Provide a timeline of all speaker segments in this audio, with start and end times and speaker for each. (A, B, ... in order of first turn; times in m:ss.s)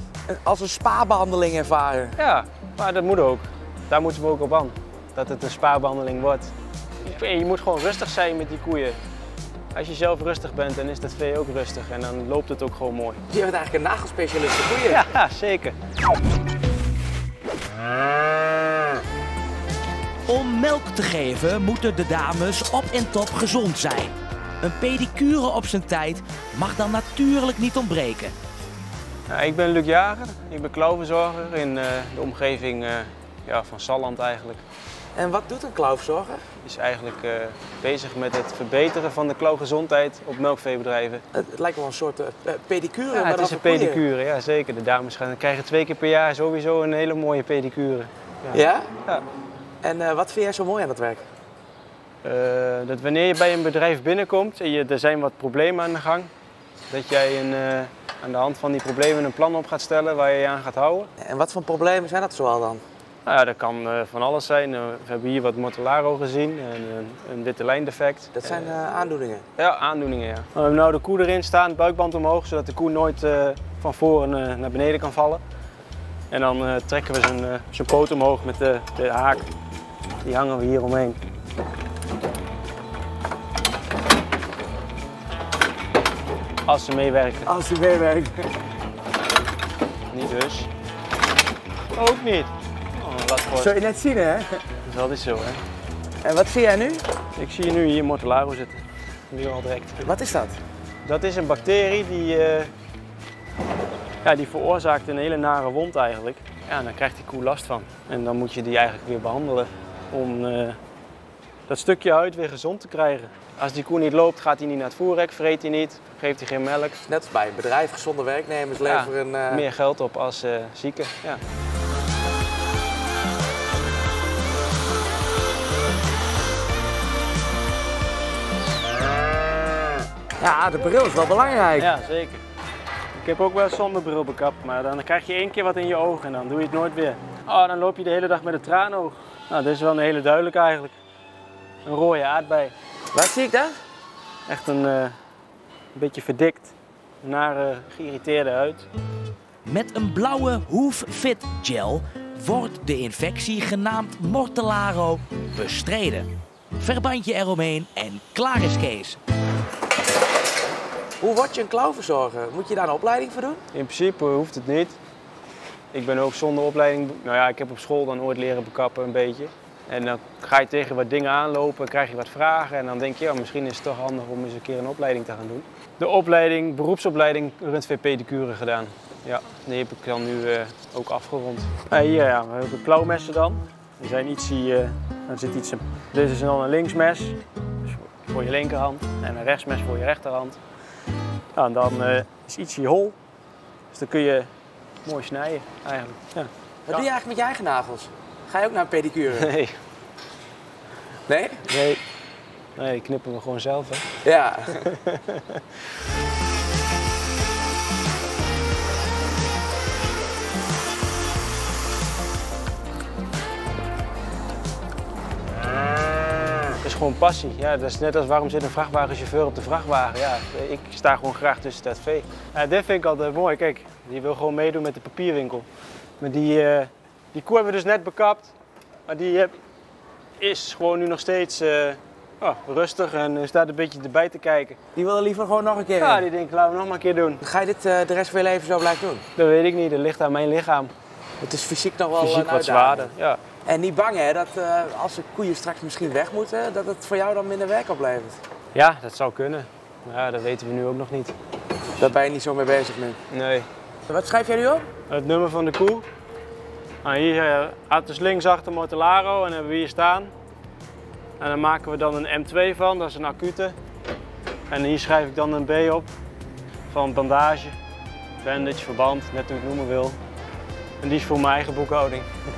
0:00.3-0:02.2 A
0:02.2-0:09.0 B
0:09.7-0:13.2 B
0:13.3-0:15.0 A
0:14.9-0:15.8 B
0:20.3-0:28.3 C
0:29.3-0:34.6 B
0:35.2-0:36.4 A
0:36.6-0:41.2 B
0:41.3-0:44.0 A
0:43.1-0:49.2 B
0:48.5-0:48.9 A
0:49.8-0:51.2 A
0:52.2-0:56.3 B
0:56.9-1:01.1 B
1:01.2-1:02.8 A
1:03.2-1:08.6 B
1:08.4-1:09.4 A
1:09.6-1:15.4 B
1:16.3-1:19.5 B
1:20.2-1:21.2 B
1:26.7-1:27.5 B
1:27.5-1:28.5 A
1:30.1-1:30.7 B
1:32.0-1:33.7 B
1:33.6-1:34.6 A
1:34.8-1:35.6 B
1:36.2-1:37.0 A
1:37.4-1:40.1 B
1:40.0-1:40.6 A
1:41.0-1:42.7 B
1:44.2-1:50.8 B
1:51.7-1:57.0 B
1:57.1-1:59.7 A
1:58.8-2:01.4 B
2:10.4-2:11.9 A
2:11.7-2:12.4 B
2:13.2-2:21.0 B
2:21.8-2:22.7 B
2:23.1-2:23.8 A
2:24.5-2:25.2 B
2:25.9-2:28.9 B
2:29.7-2:39.2 C
2:41.2-2:43.6 A
2:43.7-2:45.0 B
2:45.9-3:10.6 B
3:11.6-3:13.2 B
3:13.9-3:14.5 B
3:15.0-3:17.0 B
3:16.9-3:19.5 A
3:19.3-3:19.8 B
3:21.3-3:21.7 A
3:21.6-3:22.0 B
3:22.8-3:24.1 B
3:24.2-3:24.9 A
3:24.8-3:25.7 B
3:36.8-3:45.7 B
3:46.2-3:48.5 B
3:49.1-3:49.6 B
3:50.4-3:54.8 B
3:55.0-3:56.3 A
3:56.0-3:57.4 B
3:57.4-3:59.2 A
3:59.4-4:00.9 B
4:01.4-4:03.1 A
4:02.2-4:03.4 B
4:03.7-4:08.4 A
4:08.7-4:11.4 B
4:12.0-4:13.2 A
4:13.3-4:13.7 B
4:14.1-4:14.9 A
4:15.1-4:16.1 B
4:17.0-4:20.3 B
4:21.4-4:23.8 B
4:24.7-4:26.1 B
4:26.9-4:27.8 B
4:28.4-4:30.2 B
4:31.0-4:32.3 B